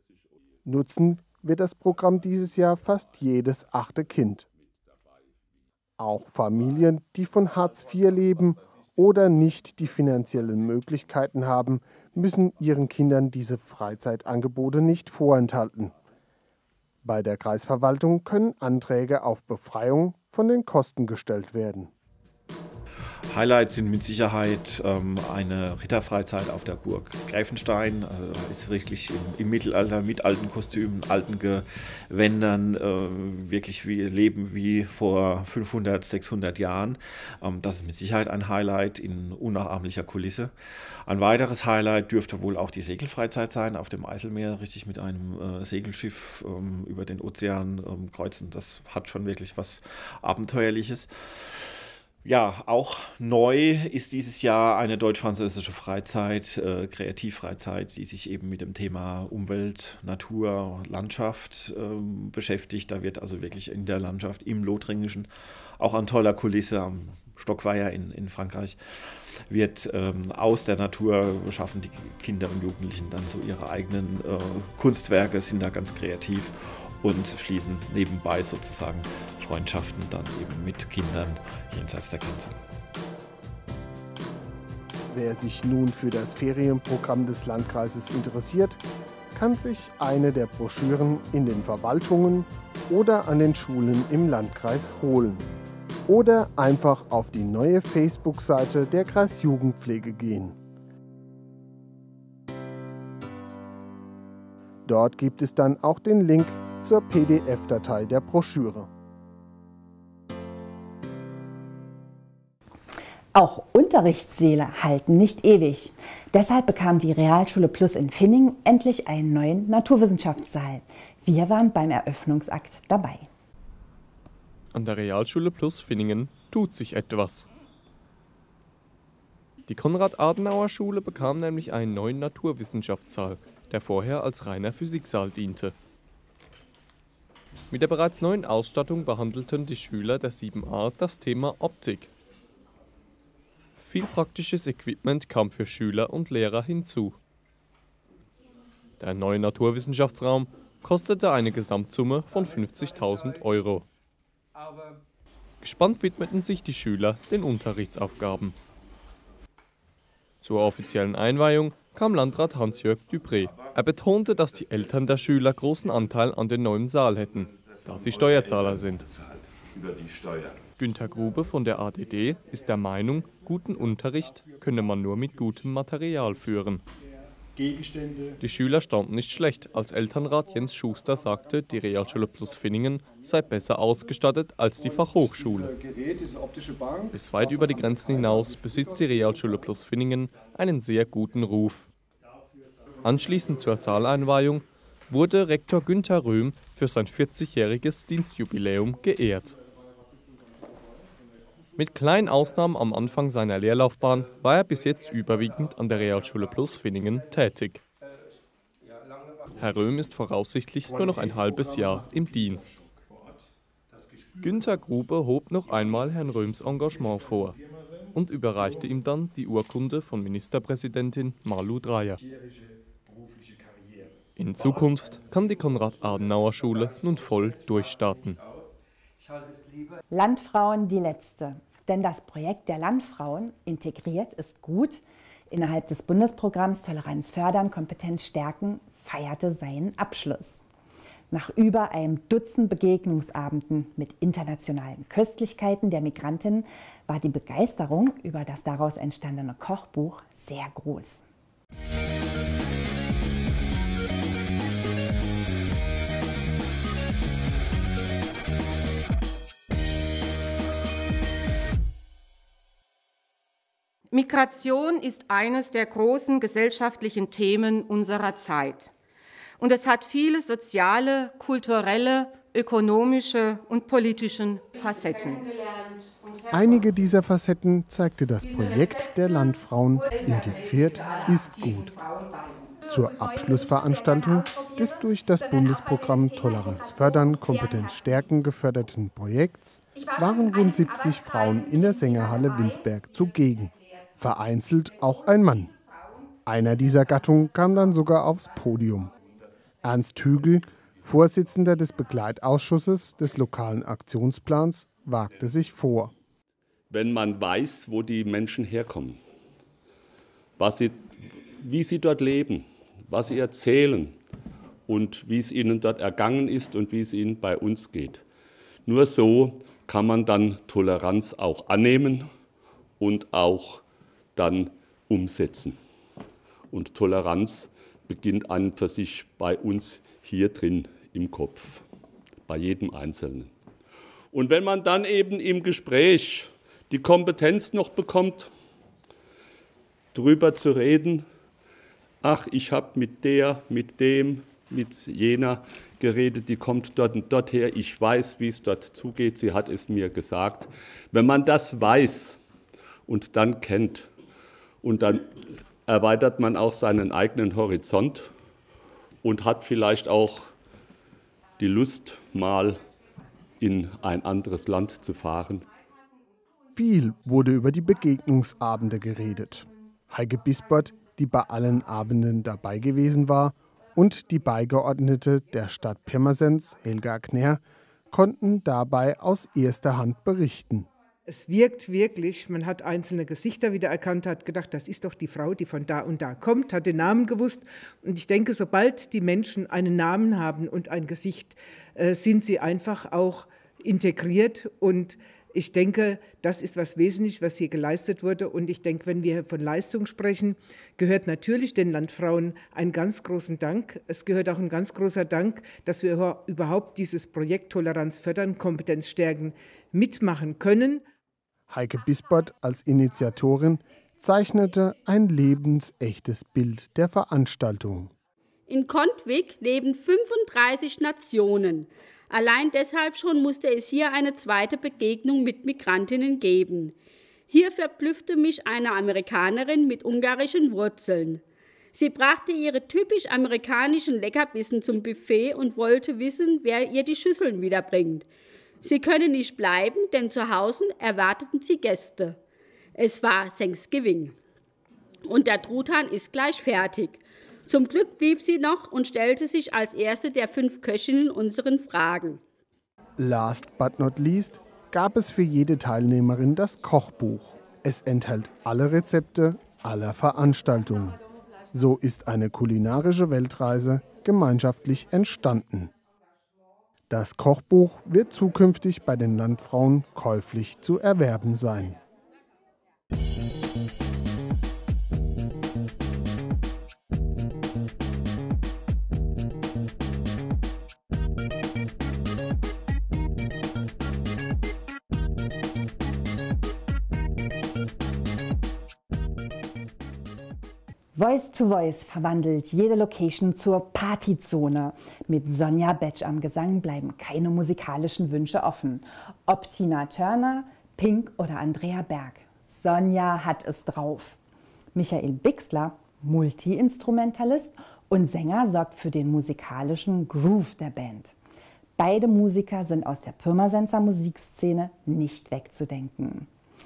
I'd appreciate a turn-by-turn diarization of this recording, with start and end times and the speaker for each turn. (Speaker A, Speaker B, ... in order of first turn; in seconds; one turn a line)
Speaker A: 0.6-4.5
Speaker A: 6.0-15.9
Speaker A: 17.0-21.9
Speaker B: 23.3-40.5
Speaker B: 41.1-51.1
Speaker B: 52.2-65.3
Speaker B: 65.8-68.8
Speaker B: 69.5-82.5
Speaker A: 85.1-88.8
Speaker A: 89.3-95.5
Speaker A: 96.1-100.5
Speaker A: 104.8-108.9
Speaker C: 113.3-123.3
Speaker D: 124.7-127.5
Speaker D: 129.7-135.7
Speaker D: 137.7-142.1
Speaker D: 143.8-147.2
Speaker D: 149.0-153.8
Speaker D: 155.6-158.6
Speaker D: 160.4-169.1
Speaker D: 170.8-176.8
Speaker A: 177.6-178.3
Speaker D: 178.4-185.7
Speaker A: 185.0-187.1
Speaker D: 187.1-191.9
Speaker D: 193.0-199.6
Speaker D: 201.8-207.8
Speaker D: 209.6-212.8
Speaker D: 214.4-217.6
Speaker D: 218.1-222.2
Speaker D: 224.3-228.4
Speaker C: 230.1-240.6
Speaker C: 241.3-251.2
Speaker E: 264.1-268.9
Speaker E: 269.6-275.4
Speaker A: 276.5-281.9
Speaker A: 282.9-295.7
Speaker A: 296.4-299.1
Speaker A: 299.8-306.1
Speaker F: 306.9-309.2
Speaker F: 310.6-311.0
Speaker F: 311.6-314.1
Speaker F: 314.9-318.2
Speaker F: 318.9-322.3
Speaker F: 323.0-323.8
Speaker F: 324.4-325.8
Speaker F: 326.7-331.8
Speaker F: 332.5-333.5
Speaker F: 334.3-338.5
Speaker F: 340.1-341.2
Speaker F: 342.2-352.4
Speaker F: 353.1-354.1
Speaker F: 354.8-355.2
Speaker F: 355.9-358.3
Speaker F: 359.2-360.4
Speaker F: 361.6-362.8
Speaker F: 363.6-365.6
Speaker A: 366.7-380.9
Speaker G: 381.3-411.0
Speaker A: 411.7-418.1
Speaker H: 418.7-426.9
Speaker H: 427.5-431.4
Speaker H: 431.9-438.2
Speaker H: 438.8-442.4
Speaker H: 442.9-444.3
Speaker H: 445.2-452.4
Speaker A: 453.2-461.2
Speaker A: 461.7-465.9
Speaker A: 467.1-472.0
Speaker C: 491.1-504.4
Speaker C: 504.9-511.3
Speaker C: 512.0-516.5